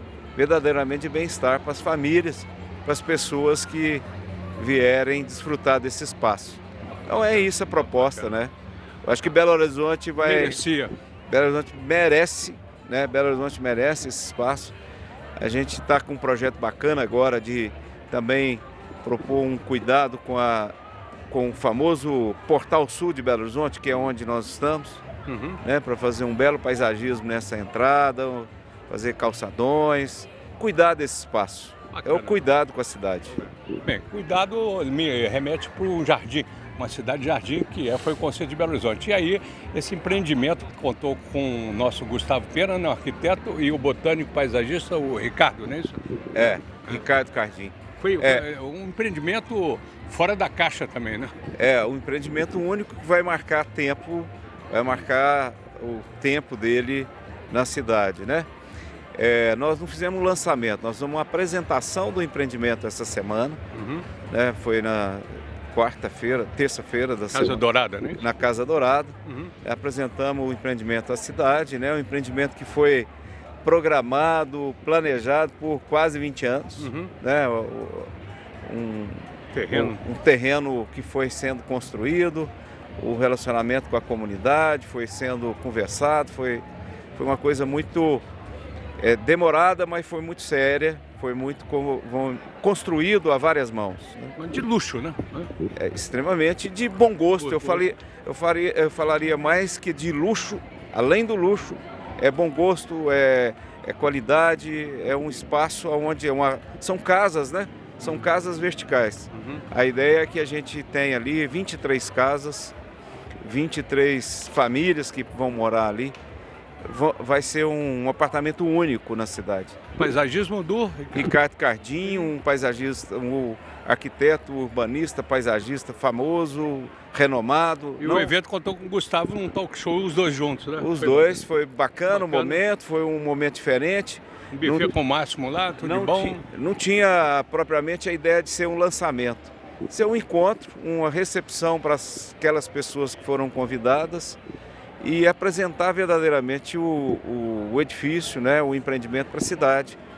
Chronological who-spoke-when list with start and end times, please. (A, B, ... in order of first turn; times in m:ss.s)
0:00.4-0:04.0 A
0:04.6-0:08.5 A
0:07.0-0:08.3 B
0:09.0-0:10.6 A
0:10.2-0:10.9 B
0:11.3-0:14.7 A
0:15.4-0:20.7 A
0:21.3-0:25.0 A
0:25.3-0:25.6 B
0:25.6-0:33.5 A
0:31.9-0:32.4 B
0:33.8-0:47.0 B
0:46.3-0:48.4 A
0:48.0-0:51.3 B
0:51.6-0:58.5 A
0:59.2-1:03.6 A
1:03.7-1:04.1 B
1:04.3-1:07.6 A
1:07.3-1:08.3 B
1:08.2-1:13.1 A
1:09.3-1:09.5 B
1:13.6-1:18.1 A
1:16.8-1:17.1 B
1:18.6-1:28.2 A
1:19.5-1:20.0 B
1:29.0-1:34.4 A
1:34.4-1:35.5 B
1:35.8-1:52.7 A
1:37.4-1:37.8 B
1:49.4-1:49.6 B
1:53.4-1:56.2 A
1:56.8-1:59.8 A
2:00.0-2:01.3 B
2:01.1-2:08.3 A
2:08.0-2:11.4 B
2:10.8-2:14.9 A
2:12.1-2:12.6 B
2:14.5-2:16.4 B
2:15.8-2:24.4 A
2:25.0-2:30.0 A